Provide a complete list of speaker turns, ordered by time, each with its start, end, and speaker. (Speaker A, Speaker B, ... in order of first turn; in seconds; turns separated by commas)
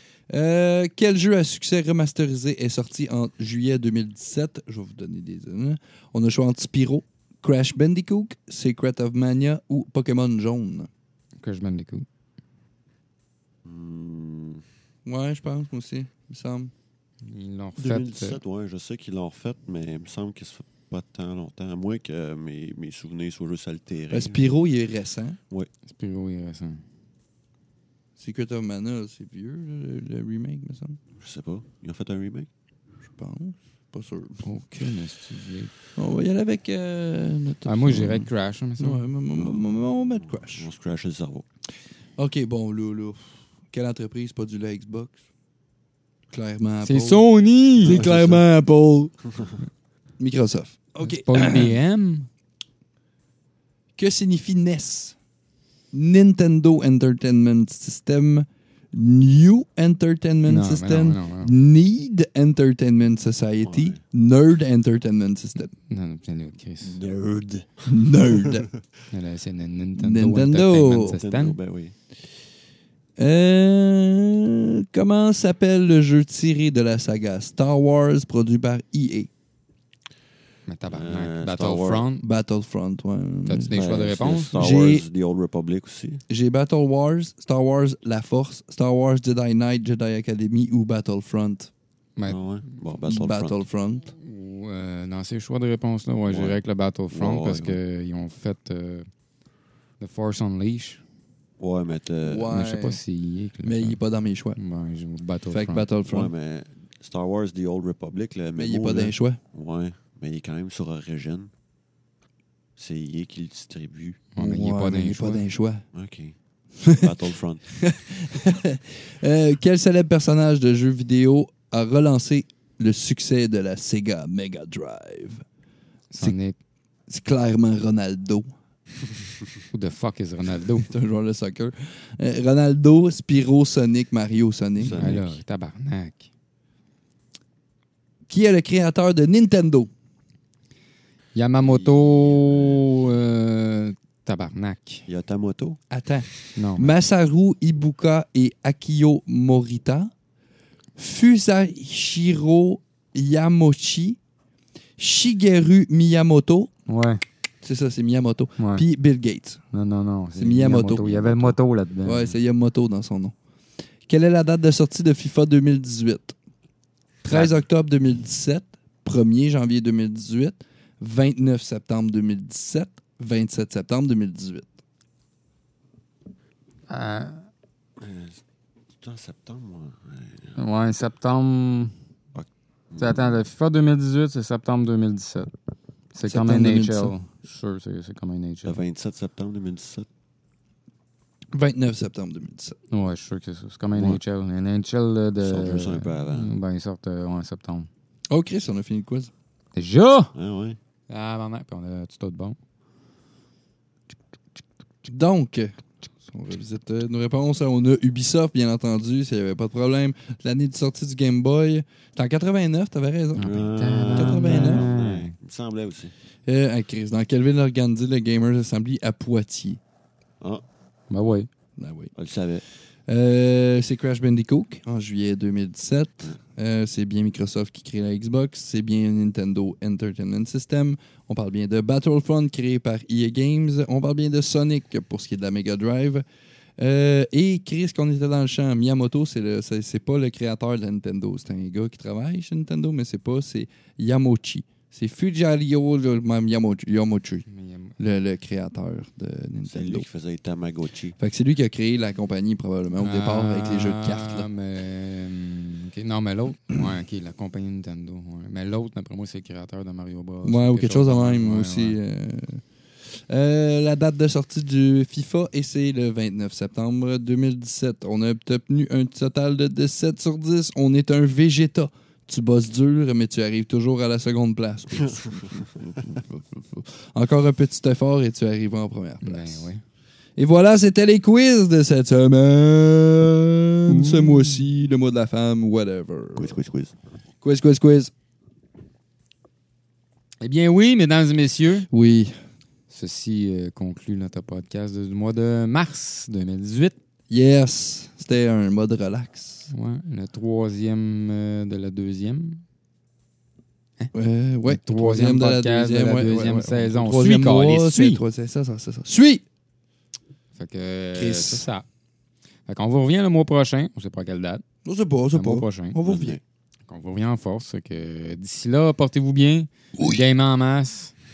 Speaker A: 0.3-10.9, Speaker B: 11.4-12.1, Speaker C: 13.6-14.6, Speaker A: 15.1-16.7, Speaker B: 17.2-18.4, Speaker C: 17.8-24.6, Speaker A: 24.1-25.4, Speaker B: 25.9-26.8, Speaker A: 28.2-31.0, Speaker C: 31.1-32.5, Speaker A: 33.2-34.5, Speaker B: 34.4-35.7, Speaker A: 36.0-40.7, Speaker B: 37.6-39.0, Speaker C: 39.3-41.5, Speaker A: 42.2-43.2, Speaker A: 43.7-45.2, Speaker A: 46.3-47.2, Speaker B: 46.8-48.0, Speaker A: 47.8-49.1, Speaker C: 47.8-48.4, Speaker A: 50.2-51.8, Speaker B: 51.0-52.3, Speaker A: 54.0-55.1, Speaker A: 55.9-65.7, Speaker B: 60.5-61.5, Speaker C: 63.6-64.0, Speaker B: 65.9-67.0, Speaker C: 66.8-68.8, Speaker A: 67.9-68.7, Speaker B: 69.1-71.6, Speaker A: 70.0-71.1, Speaker C: 70.9-71.9, Speaker A: 73.2-79.3, Speaker B: 80.7-82.2, Speaker C: 80.9-82.1, Speaker A: 82.2-83.8, Speaker B: 83.5-84.6, Speaker C: 83.7-86.2, Speaker A: 84.5-85.0, Speaker A: 86.3-91.7, Speaker B: 92.2-92.6, Speaker C: 92.3-93.6, Speaker A: 93.0-94.1, Speaker B: 94.2-99.1, Speaker C: 96.3-96.6, Speaker C: 97.1-97.8, Speaker B: 100.0-101.0, Speaker C: 101.6-102.5, Speaker A: 102.2-103.0, Speaker B: 102.5-104.0, Speaker A: 103.6-104.6, Speaker B: 104.6-105.8, Speaker A: 105.5-106.3, Speaker C: 106.0-111.5, Speaker A: 108.6-109.4, Speaker C: 112.8-114.2, Speaker B: 114.3-115.5, Speaker A: 114.4-115.8, Speaker C: 115.9-116.3, Speaker A: 116.8-117.1, Speaker C: 116.9-117.7, Speaker A: 117.7-125.4, Speaker B: 126.1-126.5, Speaker A: 127.1-128.5, Speaker B: 129.7-130.9, Speaker A: 130.8-135.0, Speaker C: 134.8-135.4, Speaker B: 135.0-136.3, Speaker A: 138.3-139.9, Speaker B: 141.3-145.1, Speaker C: 141.6-143.1, Speaker C: 145.1-145.8, Speaker A: 145.9-150.1, Speaker B: 146.6-146.9, Speaker A: 151.0-154.2, Speaker A: 155.0-156.7, Speaker B: 156.9-157.2, Speaker A: 157.6-159.6, Speaker B: 158.6-158.8, Speaker B: 159.7-162.4, Speaker A: 160.4-163.3, Speaker A: 164.1-166.3, Speaker A: 167.2-174.7, Speaker B: 167.3-167.6, Speaker B: 176.9-177.5, Speaker C: 178.0-178.4, Speaker C: 179.0-180.6, Speaker B: 180.6-181.9, Speaker C: 182.3-183.4, Speaker B: 183.0-185.5, Speaker B: 186.1-188.8, Speaker A: 186.3-187.2, Speaker C: 188.6-190.1, Speaker A: 191.5-192.8, Speaker B: 192.9-197.9, Speaker C: 193.9-194.2, Speaker C: 195.4-196.6, Speaker A: 198.3-199.3, Speaker B: 199.8-200.3, Speaker C: 200.3-200.8, Speaker B: 201.1-202.6, Speaker A: 205.0-213.5, Speaker B: 213.3-215.3, Speaker C: 213.4-216.1, Speaker A: 214.2-214.9, Speaker A: 216.5-219.8, Speaker B: 221.1-221.5, Speaker A: 221.8-222.1, Speaker C: 222.1-222.6, Speaker A: 223.1-236.2, Speaker A: 236.8-247.4, Speaker B: 247.5-248.0, Speaker A: 248.0-250.1, Speaker C: 249.7-251.2, Speaker A: 251.2-254.5, Speaker B: 253.0-262.0, Speaker A: 260.4-262.6, Speaker A: 263.3-279.7, Speaker C: 275.0-275.9, Speaker B: 279.2-279.8, Speaker A: 280.4-286.6, Speaker B: 283.9-284.7, Speaker C: 286.4-286.9, Speaker A: 287.4-288.1, Speaker B: 290.4-291.9, Speaker A: 291.9-292.4, Speaker B: 292.9-296.9, Speaker A: 297.3-299.7, Speaker B: 299.7-302.6, Speaker A: 304.1-309.4, Speaker B: 304.6-308.2, Speaker B: 310.6-311.8, Speaker A: 311.1-311.6, Speaker B: 312.6-314.6, Speaker A: 314.8-316.4, Speaker B: 315.3-316.0, Speaker C: 316.0-316.4, Speaker B: 316.9-321.1